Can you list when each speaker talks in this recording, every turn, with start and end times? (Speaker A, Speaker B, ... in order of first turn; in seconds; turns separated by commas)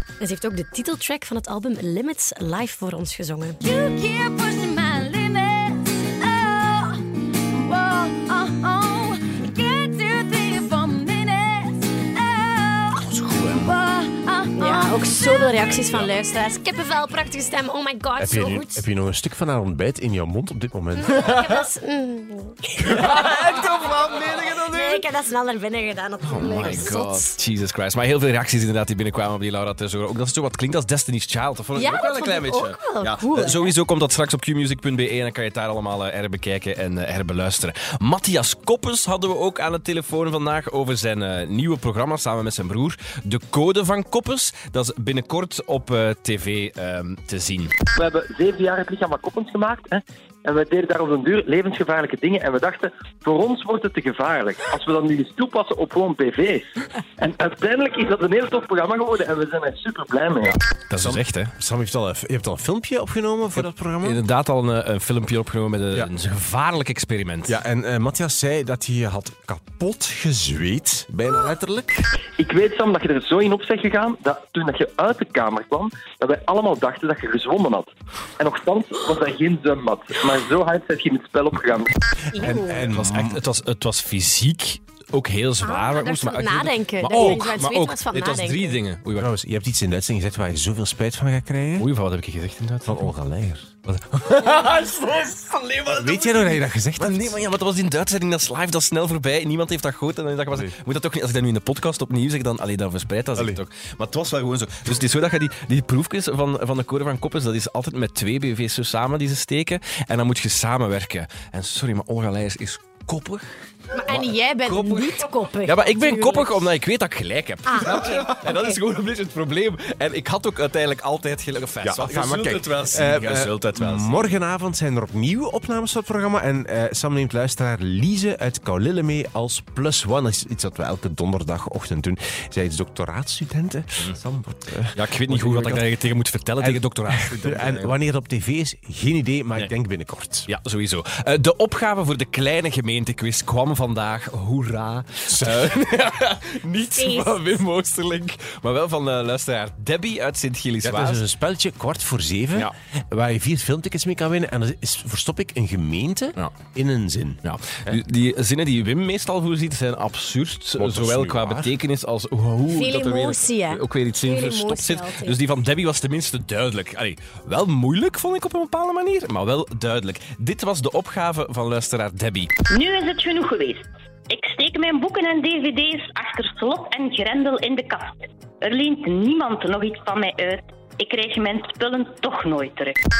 Speaker A: 0.2-3.6, Speaker B: 3.6-15.6, Speaker A: 14.6-18.8, Speaker C: 15.8-16.0, Speaker D: 18.2-21.4, Speaker A: 21.0-23.7, Speaker C: 22.8-25.1, Speaker A: 24.4-27.4, Speaker C: 26.2-47.7, Speaker A: 31.8-33.7, Speaker E: 47.9-56.6, Speaker E: 57.2-60.6, Speaker D: 60.4-64.2, Speaker C: 60.9-61.5, Speaker C: 64.0-67.5, Speaker D: 67.5-72.0, Speaker E: 72.4-81.9, Speaker A: 82.3-82.9, Speaker D: 82.3-83.4, Speaker C: 82.7-89.3, Speaker A: 85.6-88.8, Speaker D: 89.2-91.9, Speaker C: 91.8-93.1, Speaker D: 92.8-93.7, Speaker C: 93.8-113.4, Speaker D: 95.9-97.4, Speaker D: 103.3-103.6, Speaker A: 113.9-116.6, Speaker C: 114.1-124.4, Speaker A: 117.7-118.6, Speaker D: 121.8-135.8, Speaker C: 134.9-137.9, Speaker D: 136.6-140.5, Speaker C: 140.5-151.2, Speaker D: 145.4-145.7, Speaker A: 146.9-147.3, Speaker D: 150.8-158.0, Speaker C: 157.4-172.5, Speaker D: 160.8-161.8, Speaker A: 162.7-165.4, Speaker F: 172.7-183.0